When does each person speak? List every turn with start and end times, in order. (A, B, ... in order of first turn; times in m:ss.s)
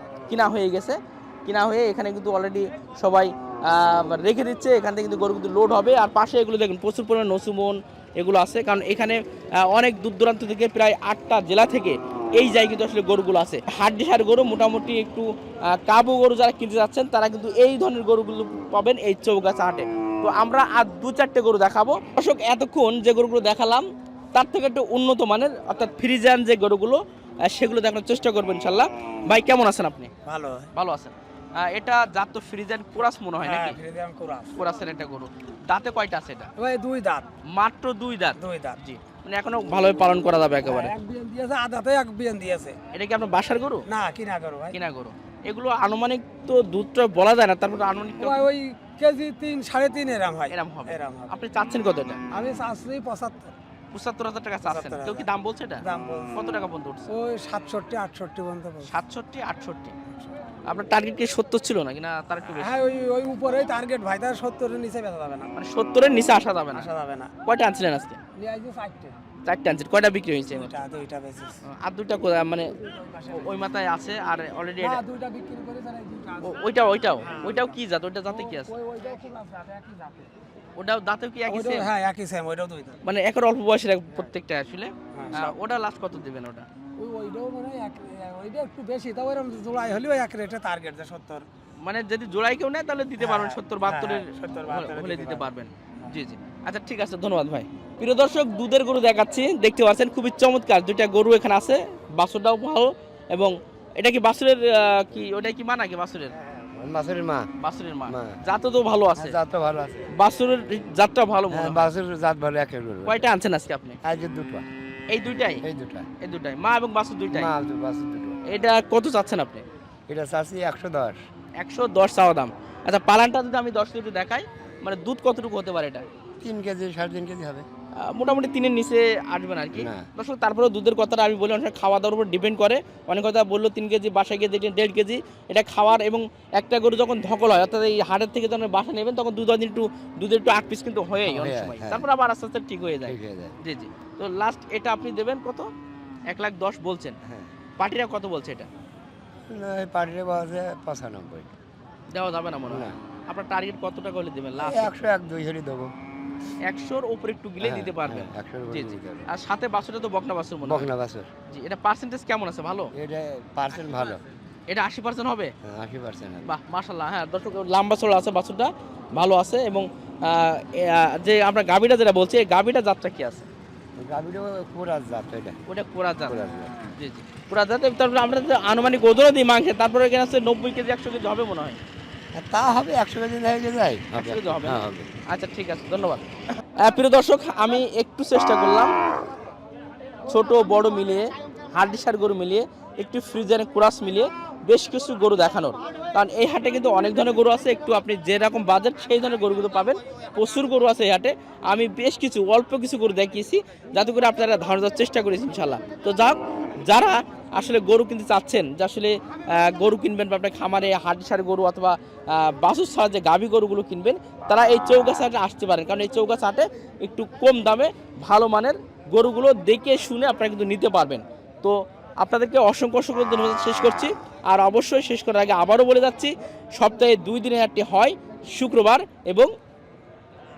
0:00.3-0:30.1 A
0:30.2-0:30.7 B
0:30.7-0:33.8 A
0:33.4-0:34.5 B
0:34.6-0:36.5 A
0:36.6-0:37.3 B
0:37.5-0:40.9 A
0:38.4-0:38.8 B
0:40.6-0:42.8 B
0:42.9-0:43.8 A
0:43.9-0:44.8 B
0:44.7-0:48.5 A
0:48.2-0:51.3 B
0:50.5-0:52.2 A
0:52.3-0:53.5 B
0:53.9-0:57.1 A
0:54.6-0:55.2 B
0:55.8-0:56.3 B
0:57.1-0:58.9 B
0:58.8-0:59.9 A
1:00.6-1:02.8 A
1:02.6-1:05.5 B
1:05.6-1:06.9 A
1:06.8-1:07.3 B
1:07.4-1:08.2 A
1:08.4-1:09.2 B
1:09.4-1:10.8 A
1:10.5-1:11.6 B
1:11.6-1:12.7 A
1:12.8-1:13.6 B
1:13.3-1:15.0 A
1:14.8-1:16.6 B
1:16.4-1:18.7 A
1:17.2-1:20.3 B
1:20.8-1:21.9 A
1:21.5-1:23.0 B
1:23.0-1:26.6 A
1:25.1-1:25.5 B
1:27.0-1:31.5 B
1:31.8-1:46.3 A
1:33.2-1:35.4 B
1:46.5-1:47.5 C
1:47.6-1:49.4 A
1:48.1-1:48.4 C
1:49.2-1:50.1 C
1:50.2-1:51.8 A
1:51.5-1:53.3 C
1:53.0-1:54.0 A
1:54.0-1:54.6 C
1:55.1-1:55.6 A
1:55.3-1:56.1 C
1:56.2-1:57.5 A
1:57.3-1:58.4 C
1:58.5-1:59.6 A
2:00.1-2:01.2 C
2:01.6-2:06.0 A
2:06.4-2:07.6 C
2:08.0-2:25.7 A
2:09.8-2:10.1 C
2:21.2-2:22.0 C
2:23.0-2:23.5 C
2:26.3-2:27.2 A
2:27.2-2:27.5 C
2:27.8-2:28.7 A
2:29.5-2:31.5 C
2:32.1-2:34.9 A
2:32.7-2:32.9 C
2:34.6-2:35.9 C
2:36.6-2:40.9 A
2:37.6-2:39.2 C
2:40.6-2:41.3 C
2:41.5-2:42.9 A
2:42.9-2:44.2 C
2:44.7-2:45.5 A
2:45.6-2:46.5 C
2:46.4-2:53.5 A
2:54.0-2:55.6 C
2:55.7-2:56.4 A
2:56.3-2:56.8 C
2:57.0-3:01.8 A
3:02.4-3:05.1 C
3:04.2-3:06.2 A
3:06.8-3:08.9 A
3:10.3-3:49.5 A